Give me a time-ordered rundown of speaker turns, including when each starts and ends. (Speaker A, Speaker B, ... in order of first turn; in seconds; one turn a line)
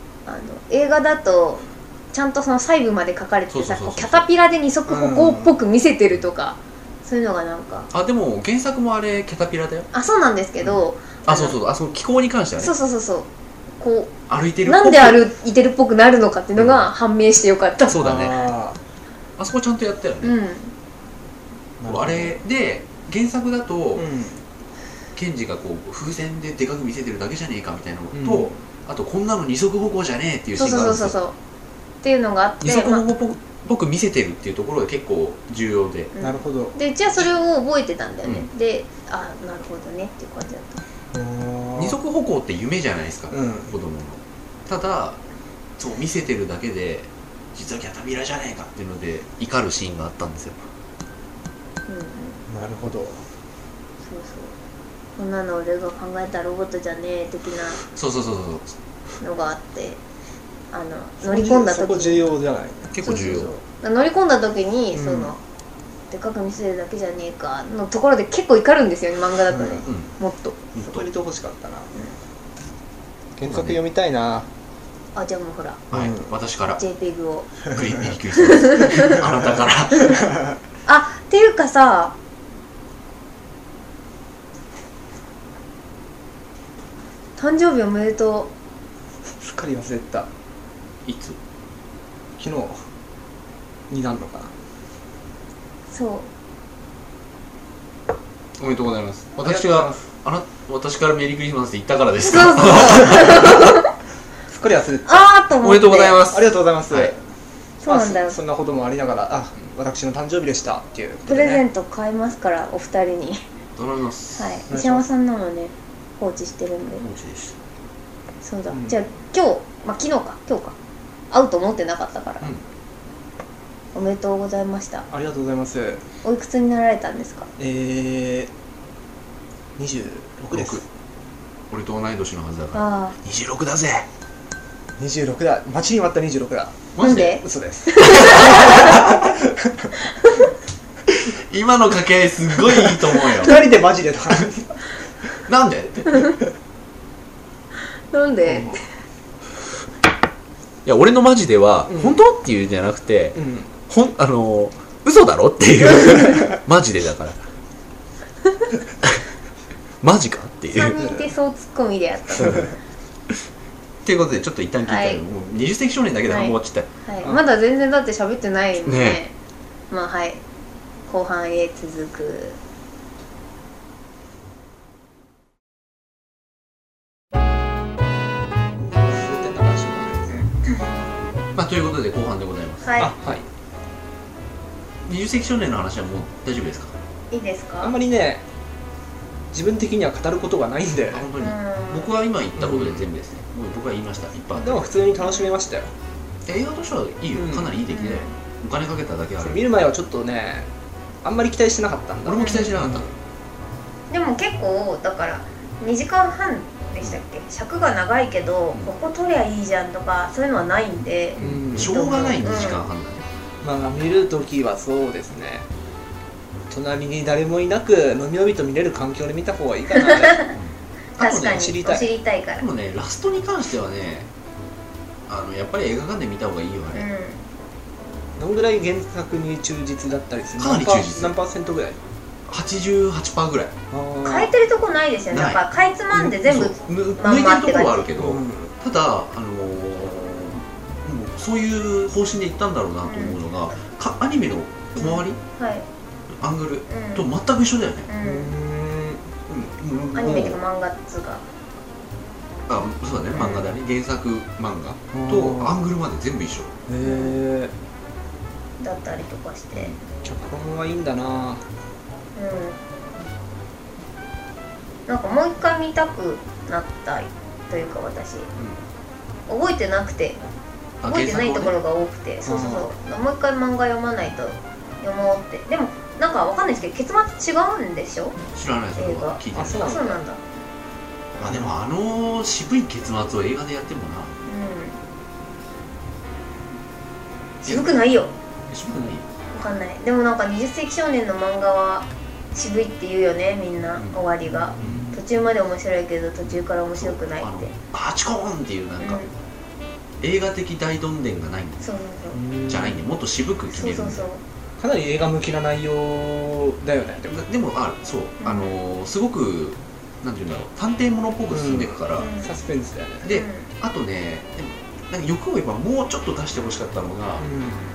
Speaker A: 0.3-7.9
Speaker B: 3.5-4.2
Speaker C: 4.9-5.5
Speaker B: 7.9-9.9
Speaker A: 9.9-11.6
Speaker B: 10.6-12.7
Speaker A: 12.6-13.3
Speaker A: 13.8-14.1
Speaker B: 14.3-15.2
Speaker A: 14.7-18.1
Speaker B: 16.6-16.9
Speaker B: 17.9-18.4
Speaker C: 18.0-18.8
Speaker B: 19.4-20.4
Speaker A: 20.2-20.7
Speaker C: 21.8-22.4
Speaker B: 21.9-24.1
Speaker C: 24.0-24.4
Speaker B: 25.1-31.2
Speaker C: 28.1-28.5
Speaker A: 30.6-31.4
Speaker A: 32.0-33.0
Speaker B: 32.6-36.1
Speaker A: 36.1-40.8
Speaker C: 36.2-36.8
Speaker C: 41.1-42.0
Speaker B: 41.8-45.2
Speaker C: 43.3-43.7
Speaker B: 45.8-50.6
Speaker A: 51.9-52.4
Speaker C: 52.5-53.2
Speaker A: 54.0-54.5
Speaker A: 55.2-57.8
Speaker B: 57.9-58.7
Speaker A: 59.2-60.0
Speaker A: 60.7-62.2
Speaker C: 61.2-63.0
Speaker B: 62.9-63.5
Speaker A: 63.0-65.4
Speaker C: 64.9-65.3
Speaker A: 66.1-70.6
Speaker C: 69.5-69.8
Speaker B: 69.8-70.1
Speaker B: 70.7-71.1
Speaker C: 70.8-71.9
Speaker C: 73.4-74.5
Speaker B: 73.4-73.8
Speaker A: 75.2-75.8
Speaker B: 75.9-76.8
Speaker C: 75.9-76.3
Speaker A: 76.8-77.5
Speaker B: 77.6-80.2
Speaker A: 78.5-79.2
Speaker C: 80.1-80.5
Speaker A: 80.9-82.2
Speaker A: 87.4-88.5
Speaker C: 89.3-90.3
Speaker B: 91.0-91.4
Speaker C: 92.4-92.8
Speaker C: 93.9-94.5
Speaker A: 95.9-96.3
Speaker B: 98.6-103.8
Speaker C: 99.4-100.0
Speaker A: 102.2-103.9
Speaker C: 104.5-105.2
Speaker A: 105.1-106.2
Speaker B: 105.6-107.1
Speaker C: 106.3-107.2
Speaker A: 107.8-108.4
Speaker C: 107.9-111.6
Speaker A: 111.3-113.4
Speaker B: 113.8-114.6
Speaker A: 114.3-117.0
Speaker C: 114.7-115.1
Speaker B: 117.0-117.5
Speaker A: 118.4-120.8
Speaker C: 118.7-119.0
Speaker A: 121.3-122.5
Speaker A: 124.0-125.1
Speaker C: 125.1-126.0
Speaker A: 126.2-127.5
Speaker C: 127.6-128.5
Speaker C: 129.8-130.8
Speaker B: 130.5-130.8
Speaker B: 131.7-134.1
Speaker A: 132.7-133.2
Speaker C: 135.0-139.9
Speaker B: 136.9-137.4
Speaker A: 137.0-139.1
Speaker B: 138.0-139.1
Speaker A: 140.0-140.5
Speaker B: 141.1-143.6
Speaker C: 142.7-144.8
Speaker B: 145.5-146.3
Speaker A: 148.1-148.9
Speaker C: 148.4-148.8
Speaker B: 150.8-157.4
Speaker C: 151.9-152.2
Speaker C: 153.4-153.7
Speaker B: 160.0-161.0
Speaker A: 160.7-162.7
Speaker C: 161.0-161.3
Speaker B: 164.1-166.9
Speaker A: 164.8-165.2
Speaker A: 166.3-169.3
Speaker B: 168.8-169.2
Speaker A: 169.9-170.4
Speaker A: 171.1-172.6
Speaker C: 178.8-180.5
Speaker B: 181.6-183.1
Speaker A: 182.8-183.2
Speaker C: 183.0-183.4
Speaker B: 185.1-186.9
Speaker A: 187.3-187.9
Speaker C: 187.8-188.4
Speaker C: 189.5-191.3
Speaker B: 191.1-194.9
Speaker A: 191.4-192.1
Speaker C: 192.6-193.1
Speaker C: 194.6-195.9
Speaker B: 196.5-199.6
Speaker C: 197.3-197.7
Speaker A: 197.9-198.3
Speaker C: 199.4-200.7
Speaker C: 201.2-203.1
Speaker B: 202.2-203.1
Speaker A: 202.4-202.7
Speaker A: 204.1-212.8
Speaker B: 211.4-213.2
Speaker C: 211.4-212.4
Speaker C: 213.6-215.7
Speaker C: 216.7-220.4
Speaker A: 219.9-220.5
Speaker B: 220.5-221.8
Speaker A: 221.2-222.7
Speaker C: 221.4-222.1
Speaker B: 222.6-224.3
Speaker B: 225.3-227.1
Speaker A: 226.9-227.5
Speaker C: 228.4-232.0
Speaker B: 230.6-231.3
Speaker B: 232.5-233.7
Speaker C: 233.9-234.5
Speaker A: 234.2-238.1
Speaker B: 235.3-245.4
Speaker C: 238.2-238.7
Speaker A: 243.1-243.4
Speaker A: 244.9-245.9
Speaker B: 246.4-248.1
Speaker A: 246.9-247.3
Speaker A: 248.1-248.5
Speaker C: 248.2-249.2
Speaker B: 249.5-250.6
Speaker A: 250.2-251.4
Speaker B: 252.7-256.7
Speaker A: 253.3-253.7
Speaker C: 255.1-255.8
Speaker C: 256.9-257.7
Speaker A: 257.0-257.4
Speaker A: 258.8-260.0
Speaker C: 260.2-261.6
Speaker A: 262.4-262.8
Speaker A: 265.1-268.5
Speaker A: 269.5-270.4
Speaker B: 271.0-271.8
Speaker A: 271.0-278.4
Speaker C: 272.4-272.9
Speaker B: 278.5-280.0
Speaker A: 279.0-280.4
Speaker C: 279.5-280.2
Speaker B: 281.4-284.4
Speaker C: 281.4-281.7
Speaker A: 284.4-285.0
Speaker B: 287.6-288.0
Speaker A: 287.6-288.3
Speaker B: 288.7-289.3
Speaker A: 289.5-297.7
Speaker C: 294.8-295.1
Speaker B: 294.8-295.1
Speaker B: 296.5-299.2
Speaker A: 299.0-299.3
Speaker B: 300.2-301.9
Speaker A: 301.8-302.4
Speaker C: 302.3-303.0
Speaker B: 302.7-304.3
Speaker A: 303.7-304.4
Speaker C: 304.8-307.4
Speaker B: 307.3-312.3
Speaker A: 308.4-308.8
Speaker C: 311.5-313.3
Speaker A: 312.2-312.6
Speaker B: 313.2-317.5
Speaker A: 313.3-313.7
Speaker C: 317.4-317.9